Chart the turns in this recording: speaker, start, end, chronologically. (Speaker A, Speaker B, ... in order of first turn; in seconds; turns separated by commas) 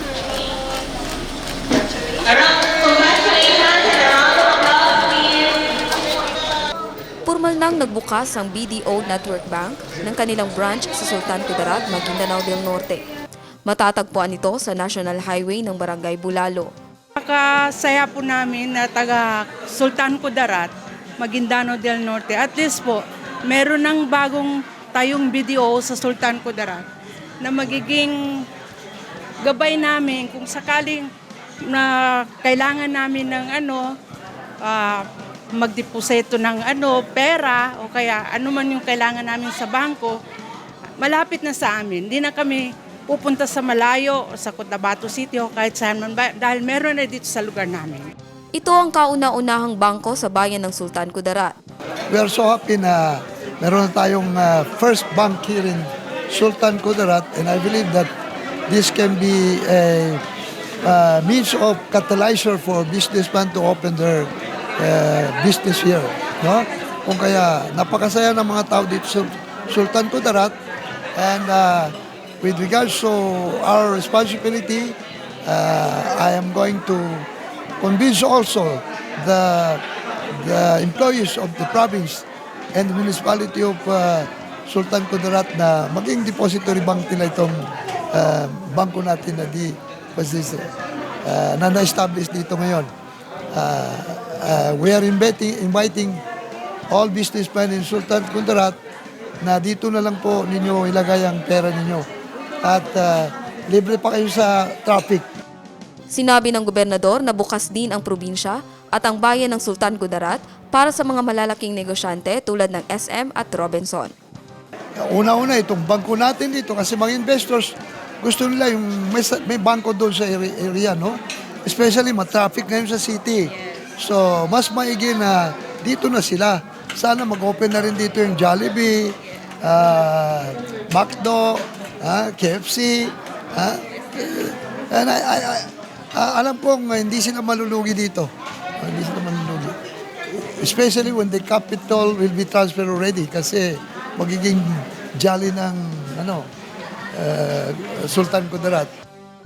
Speaker A: 7.2-13.0, Speaker A: 13.7-16.7, Speaker B: 17.2-26.9, Speaker B: 27.4-28.4, Speaker B: 29.4-31.1, Speaker B: 31.6-34.0, Speaker B: 34.6-40.2, Speaker B: 41.0-48.1, Speaker A: 48.5-51.5, Speaker C: 52.1-58.1, Speaker C: 58.7-60.2, Speaker C: 60.8-70.5, Speaker C: 71.2-77.3, Speaker C: 77.8-90.7, Speaker C: 91.2-92.9, Speaker C: 93.5-96.2, Speaker C: 96.9-98.8, Speaker C: 99.4-102.0, Speaker C: 102.6-105.2, Speaker A: 106.1-114.1, Speaker C: 115.0-139.8, Speaker C: 140.3-146.5, Speaker C: 147.2-148.9